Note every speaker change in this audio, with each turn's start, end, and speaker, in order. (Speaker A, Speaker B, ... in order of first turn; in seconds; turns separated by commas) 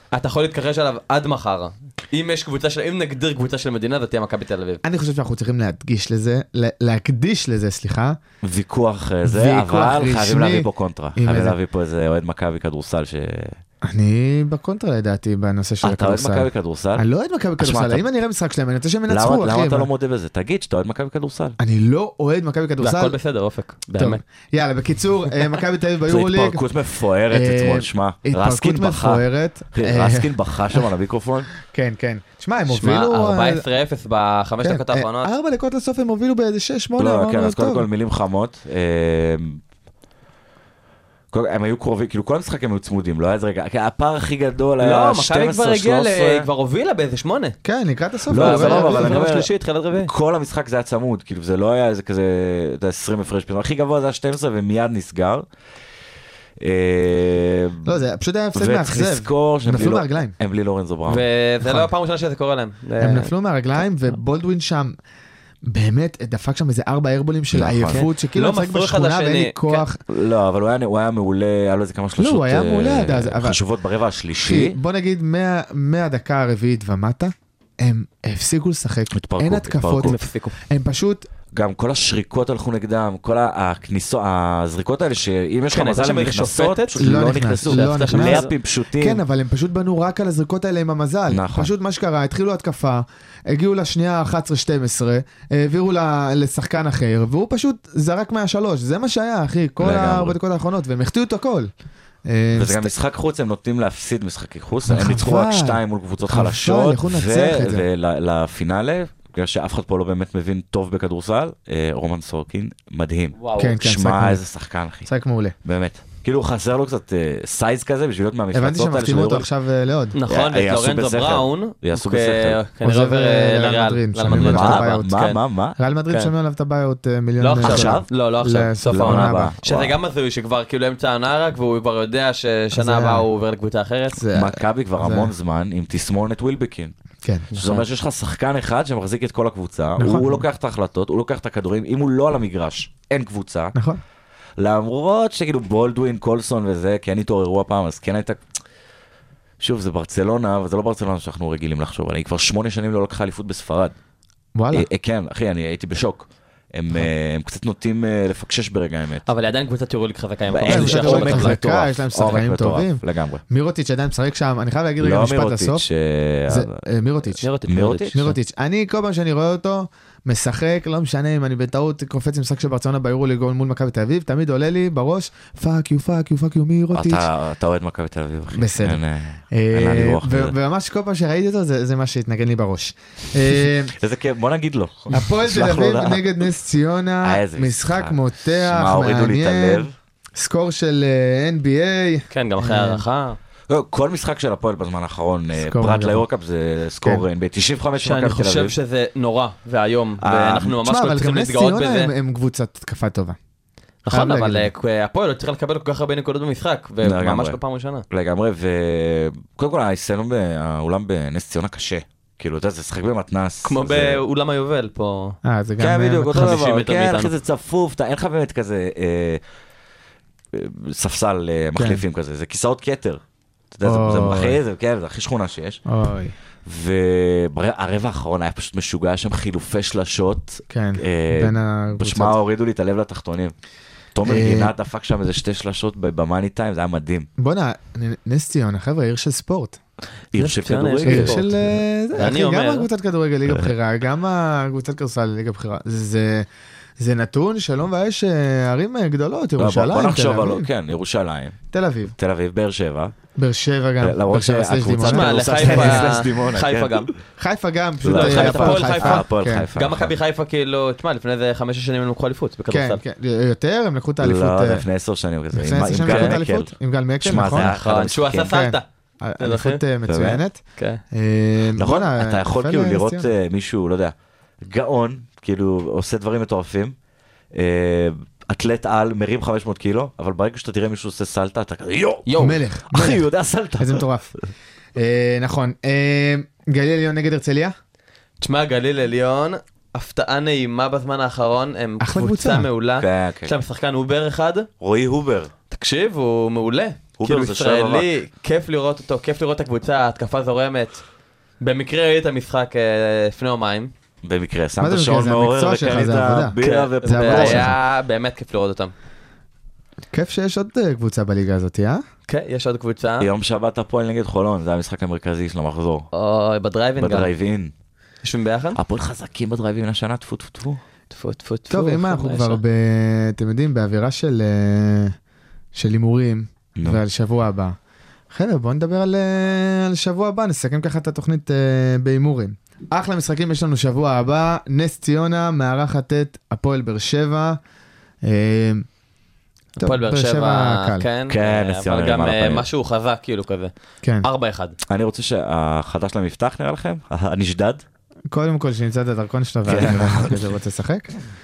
Speaker A: 0.1-4.8, Speaker B: 4.8-8.2, Speaker C: 8.4-13.6, Speaker B: 9.2-11.6, Speaker B: 13.8-19.9, Speaker C: 15.8-17.1, Speaker C: 17.6-18.0, Speaker C: 19.1-21.6, Speaker B: 21.6-23.2, Speaker A: 22.8-24.2, Speaker B: 23.9-26.6, Speaker C: 26.1-31.5, Speaker B: 27.3-30.9, Speaker B: 31.6-33.6, Speaker A: 32.7-35.3, Speaker B: 34.6-37.9, Speaker C: 37.0-39.6, Speaker C: 41.3-46.5, Speaker A: 44.8-47.6, Speaker B: 47.6-49.2, Speaker C: 48.3-55.5, Speaker A: 48.3-50.1, Speaker C: 56.6-57.9, Speaker B: 57.9-60.4, Speaker C: 58.5-61.2, Speaker A: 61.1-63.3, Speaker B: 63.0-65.0, Speaker B: 65.6-70.0, Speaker C: 67.5-68.0, Speaker A: 67.9-69.8, Speaker C: 70.1-74.8, Speaker B: 72.2-73.6, Speaker B: 74.3-80.2, Speaker C: 79.1-80.2, Speaker A: 80.0-80.6, Speaker B: 80.7-81.3, Speaker C: 81.5-89.2, Speaker A: 85.7-87.0, Speaker B: 87.0-101.7, Speaker A: 87.6-88.5, Speaker C: 91.3-91.7, Speaker C: 99.8-100.4, Speaker B: 102.3-102.9, Speaker C: 102.5-115.1, Speaker B: 104.9-107.8, Speaker A: 113.4-113.8, Speaker B: 113.6-114.4, Speaker B: 115.1-115.5, Speaker C: 115.6-119.5, Speaker B: 118.5-120.2, Speaker A: 120.1-125.4, Speaker C: 120.3-122.6, Speaker B: 122.8-125.1, Speaker C: 124.3-125.8, Speaker B: 125.8-129.5, Speaker A: 127.4-134.2, Speaker C: 127.6-128.1, Speaker C: 128.9-130.0, Speaker B: 132.7-133.3, Speaker B: 134.2-135.3, Speaker C: 134.3-136.9, Speaker A: 137.5-137.8, Speaker C: 137.6-143.8, Speaker B: 140.0-140.4, Speaker B: 143.7-144.0, Speaker C: 144.6-148.4, Speaker C: 149.6-153.9, Speaker B: 154.6-154.9, Speaker C: 154.7-159.3, Speaker A: 159.3-161.6, Speaker C: 160.5-163.4, Speaker B: 160.7-165.8, Speaker C: 165.0-166.8, Speaker B: 166.5-167.4, Speaker A: 167.4-168.3, Speaker C: 167.7-168.2, Speaker B: 168.1-177.3, Speaker C: 176.9-180.6, Speaker B: 178.5-179.0, Speaker B: 179.5-183.9, Speaker C: 184.0-186.5, Speaker B: 185.1-193.0, Speaker C: 187.2-189.9, Speaker A: 192.3-193.4, Speaker C: 193.7-198.8, Speaker B: 195.6-196.2, Speaker A: 198.0-202.1, Speaker C: 200.2-200.8, Speaker B: 200.8-203.4, Speaker A: 204.1-208.1, Speaker B: 204.1-204.7, Speaker C: 207.0-207.6, Speaker C: 208.1-214.2, Speaker A: 213.6-215.4, Speaker B: 215.4-216.6, Speaker C: 215.8-219.4, Speaker A: 216.3-217.3, Speaker C: 220.5-223.2, Speaker B: 221.8-222.0, Speaker C: 223.7-225.8, Speaker B: 223.8-224.6, Speaker B: 225.9-226.3, Speaker C: 226.7-233.5, Speaker B: 230.7-232.4, Speaker C: 234.1-237.3, Speaker B: 234.3-234.7, Speaker B: 237.4-239.8, Speaker C: 240.3-241.4, Speaker A: 240.4-241.5, Speaker B: 241.0-246.5, Speaker A: 242.1-242.9, Speaker C: 243.5-243.7, Speaker B: 247.0-250.7, Speaker C: 249.6-251.6, Speaker B: 251.7-252.1, Speaker C: 252.2-253.1, Speaker B: 253.4-256.1, Speaker C: 254.0-257.1, Speaker A: 255.0-257.1, Speaker B: 257.4-259.7, Speaker C: 258.0-260.1, Speaker A: 258.1-263.0, Speaker B: 262.7-264.9, Speaker C: 264.2-268.6, Speaker B: 265.5-267.8, Speaker A: 266.0-266.4, Speaker A: 267.8-268.9, Speaker B: 268.4-273.3, Speaker A: 269.4-269.8, Speaker C: 270.1-270.4, Speaker A: 270.8-271.0, Speaker C: 271.8-276.9, Speaker C: 277.5-284.1, Speaker A: 282.3-282.6, Speaker B: 282.4-283.2, Speaker B: 283.8-284.3, Speaker B: 284.9-287.8, Speaker A: 288.4-294.7, Speaker B: 292.0-292.7, Speaker C: 293.0-293.6, Speaker C: 294.8-295.5, Speaker A: 295.7-301.0, Speaker C: 297.2-298.1, Speaker A: 301.6-303.9, Speaker C: 304.2-307.8, Speaker B: 304.8-307.8, Speaker A: 306.6-308.9, Speaker B: 310.1-312.0, Speaker A: 312.3-313.3, Speaker C: 313.2-316.1, Speaker A: 316.1-317.3, Speaker C: 317.0-317.7, Speaker A: 318.2-318.8, Speaker C: 318.8-320.8, Speaker A: 321.1-322.6, Speaker B: 321.7-325.1, Speaker B: 325.7-327.8, Speaker B: 328.3-337.6, Speaker B: 338.2-338.9, Speaker A: 339.8-344.8, Speaker B: 339.8-341.1, Speaker C: 341.3-342.7, Speaker B: 344.0-344.3, Speaker C: 344.9-347.8, Speaker B: 348.3-351.1, Speaker C: 349.7-350.6